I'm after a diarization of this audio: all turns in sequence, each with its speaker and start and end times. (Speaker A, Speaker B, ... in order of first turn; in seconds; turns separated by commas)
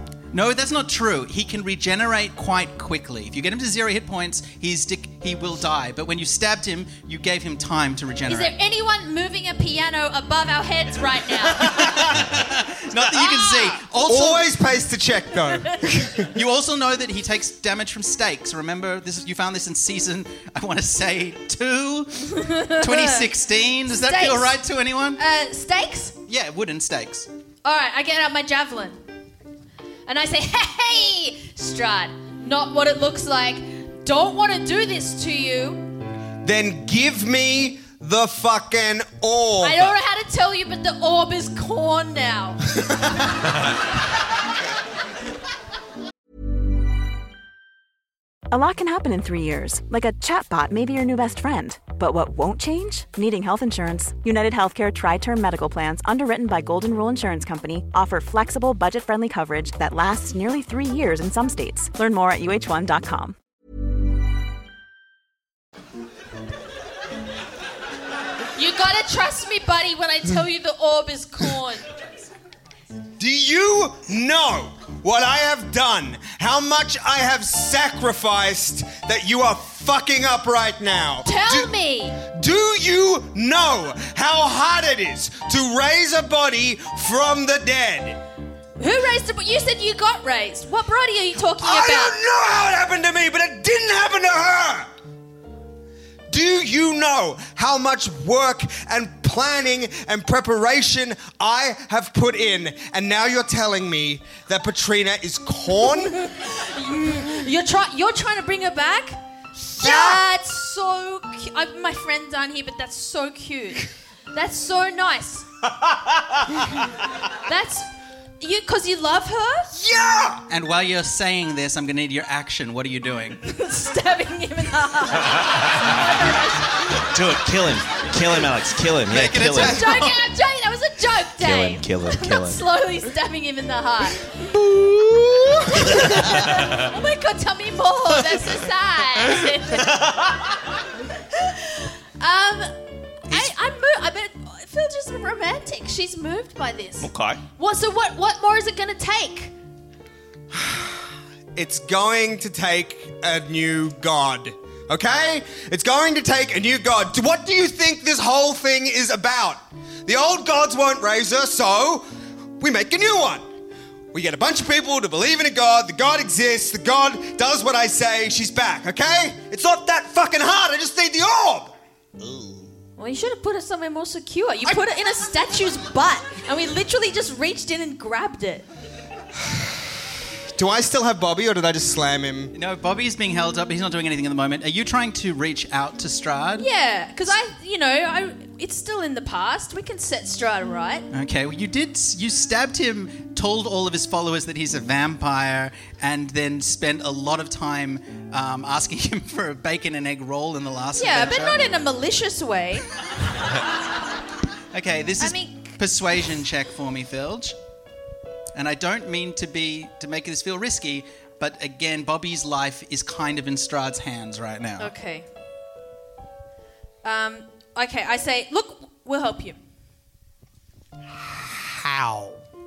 Speaker A: 0.3-8.6, Speaker B: 8.3-12.2, Speaker A: 11.7-14.5, Speaker B: 13.3-13.7, Speaker C: 14.0-16.3, Speaker A: 16.3-25.2, Speaker B: 22.4-23.3, Speaker B: 23.9-24.6, Speaker B: 25.2-26.2, Speaker A: 26.3-27.3, Speaker B: 27.6-29.0, Speaker B: 30.1-35.9, Speaker C: 36.4-39.9, Speaker B: 39.6-42.6, Speaker D: 48.5-63.4, Speaker B: 68.6-72.0, Speaker C: 73.2-88.2, Speaker B: 81.2-82.2, Speaker B: 88.8-92.2, Speaker C: 91.6-94.9, Speaker C: 96.3-106.2, Speaker B: 106.0-109.2, Speaker C: 109.8-110.2, Speaker B: 109.8-115.5, Speaker B: 117.5-119.7, Speaker C: 119.7-120.4, Speaker A: 120.5-123.4, Speaker B: 123.4-126.7, Speaker E: 127.0-129.8, Speaker A: 129.1-130.2, Speaker B: 129.6-134.3, Speaker E: 131.4-132.6, Speaker C: 134.4-136.1, Speaker B: 135.9-139.9, Speaker E: 139.8-140.4, Speaker B: 141.8-149.5, Speaker E: 147.0-147.4, Speaker C: 150.5-162.1, Speaker C: 162.6-163.5, Speaker C: 164.1-171.8, Speaker E: 172.2-172.7, Speaker B: 173.0-178.7, Speaker C: 180.6-182.5, Speaker A: 182.5-186.7, Speaker B: 186.6-191.1, Speaker A: 191.1-201.6, Speaker B: 201.0-202.9, Speaker A: 204.7-207.6, Speaker B: 205.2-205.8, Speaker A: 208.5-214.9, Speaker B: 214.8-215.3, Speaker B: 217.0-219.6, Speaker C: 221.2-222.4